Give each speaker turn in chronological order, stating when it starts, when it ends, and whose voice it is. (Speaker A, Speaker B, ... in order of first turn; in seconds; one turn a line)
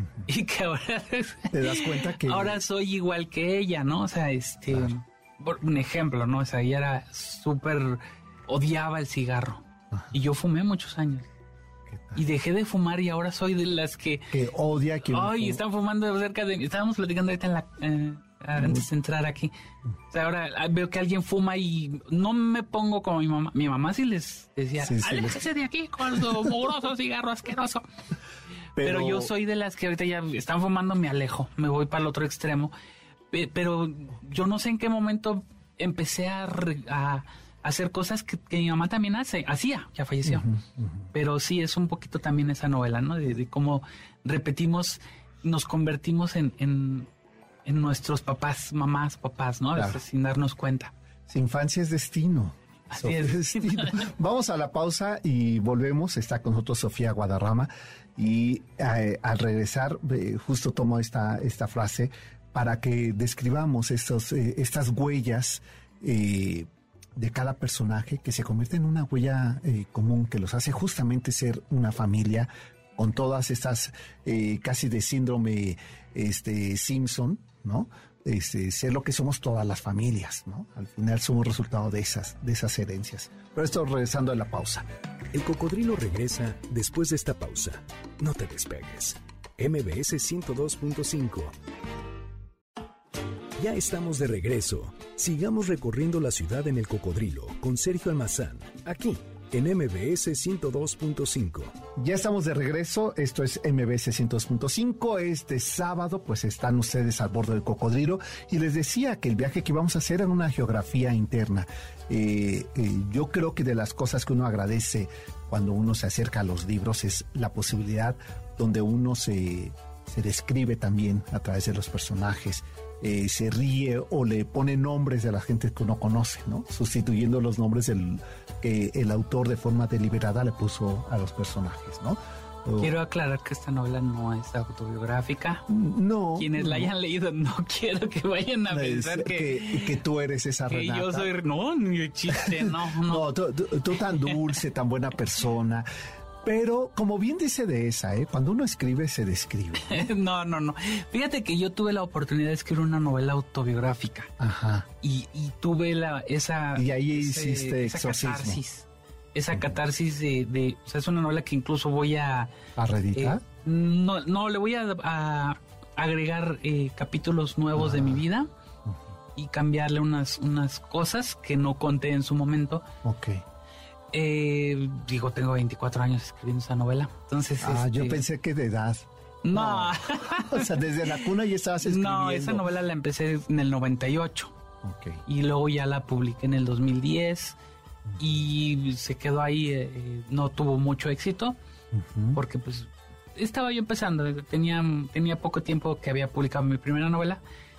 Speaker A: 0.3-11.3
Speaker B: 1.5-2.6
Speaker B: 11.9-12.2
Speaker A: 12.2-14.3
Speaker B: 14.3-15.6
Speaker A: 15.0-19.5
Speaker B: 18.6-18.8
Speaker A: 20.1-27.8
Speaker B: 24.8-25.4
Speaker B: 28.8-29.3
Speaker A: 28.8-32.7
Speaker A: 33.3-40.5
Speaker B: 40.2-41.1
Speaker A: 41.1-47.1
Speaker A: 47.6-50.9
Speaker B: 49.8-50.0
Speaker B: 51.3-84.9
Speaker A: 52.9-54.1
Speaker C: 85.3-91.5
Speaker C: 93.6-101.8
Speaker B: 102.0-133.0
Speaker A: 132.8-135.7
Speaker B: 135.7-136.9
Speaker A: 136.4-140.0
Speaker B: 138.7-141.3
Speaker A: 140.7-143.3
Speaker B: 142.3-145.9
Speaker B: 146.4-150.0
Speaker A: 149.8-154.3
Speaker B: 154.4-154.9
Speaker A: 155.0-162.6
Speaker B: 156.8-158.6
Speaker B: 162.8-163.4
Speaker A: 163.1-168.5
Speaker B: 167.8-168.2
Speaker A: 169.4-172.8
Speaker B: 173.0-173.4
Speaker A: 174.1-178.2
Speaker B: 177.6-182.7
Speaker A: 179.4-181.3
Speaker A: 181.8-184.5
Speaker B: 184.8-185.2
Speaker A: 185.3-187.6
Speaker B: 188.1-188.4
Speaker A: 188.2-191.6
Speaker B: 191.9-192.4
Speaker A: 192.3-197.4